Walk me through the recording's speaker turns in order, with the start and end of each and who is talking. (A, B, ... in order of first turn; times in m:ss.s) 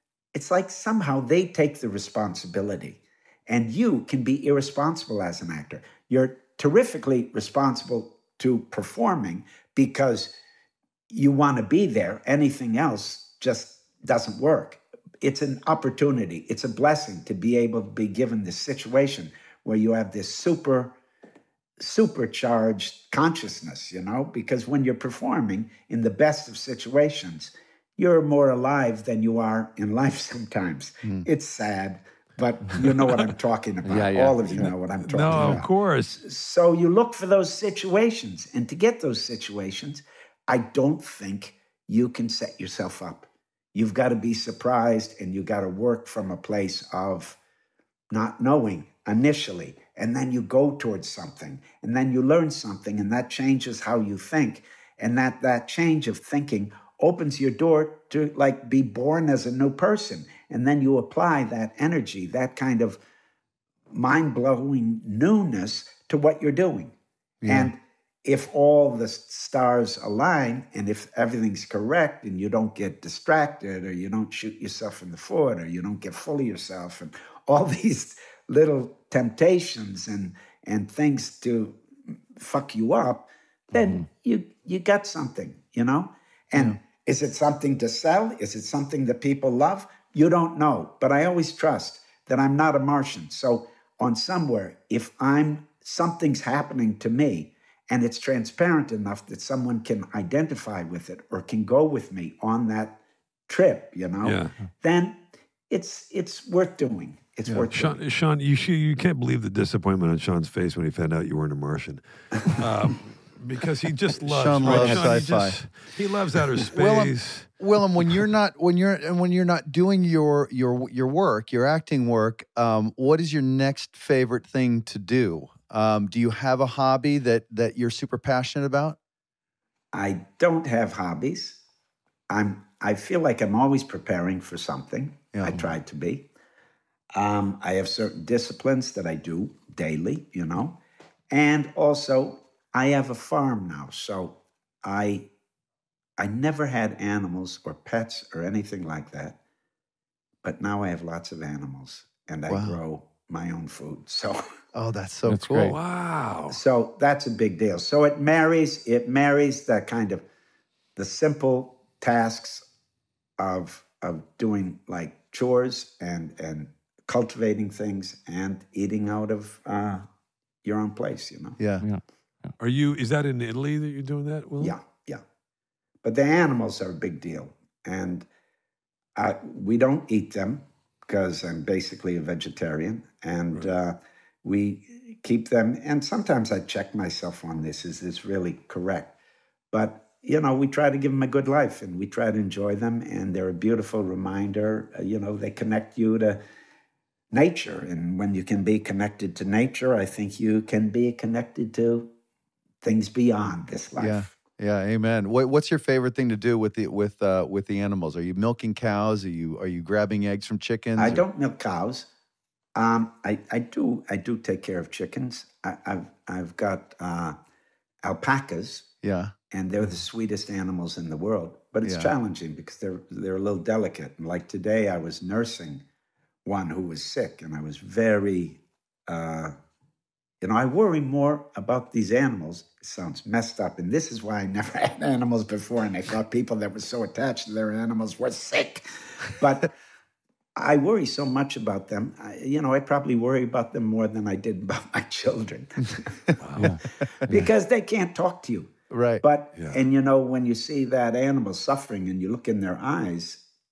0:00.3-0:10.3 A
0:11.1-0:21.0 A
0:21.8-0:47.4 A
0:33.8-0:34.7 B
0:35.0-0:36.2 C
0:48.1-1:03.0 A
1:03.9-1:07.0 A
1:07.4-1:07.7 D
1:07.5-1:21.8 A
1:22.4-1:48.0 A
1:44.2-1:44.5 C
1:47.7-1:57.5 C
1:54.2-1:55.6 D
1:56.6-2:09.0 D
2:09.9-2:11.6 A
2:12.3-2:16.3 A
2:15.3-2:15.6 D
2:17.2-2:20.8 A
2:21.3-2:25.3 A
2:26.2-2:29.4 A
2:30.4-2:34.4 A
2:32.5-2:32.8 D
2:34.7-2:35.8 D
2:35.3-2:35.8 B
2:35.6-2:36.6 C
2:36.5-2:40.2 A
2:41.0-2:42.7 A
2:43.4-2:50.1 A
2:50.6-2:51.6 A
2:51.6-2:51.8 D
2:51.8-2:52.5 B
2:52.6-2:54.8 C
2:54.6-2:55.2 A
2:56.0-2:58.3 A
2:59.2-3:09.1 A
3:09.7-3:16.4 A
3:17.3-3:22.1 A
3:22.8-3:24.3 A
3:24.0-3:31.2 D
3:31.0-3:32.1 A
3:32.8-3:37.4 A
3:38.0-3:38.9 A
3:39.0-3:39.3 D
3:39.5-3:45.8 A
3:41.8-3:42.1 D
3:46.4-3:49.6 A
3:50.4-3:59.8 A
4:00.6-4:06.3 A
4:06.4-4:06.8 C
4:06.6-4:07.5 B
4:07.3-4:13.4 A
4:08.9-4:09.2 D
4:09.6-4:09.8 C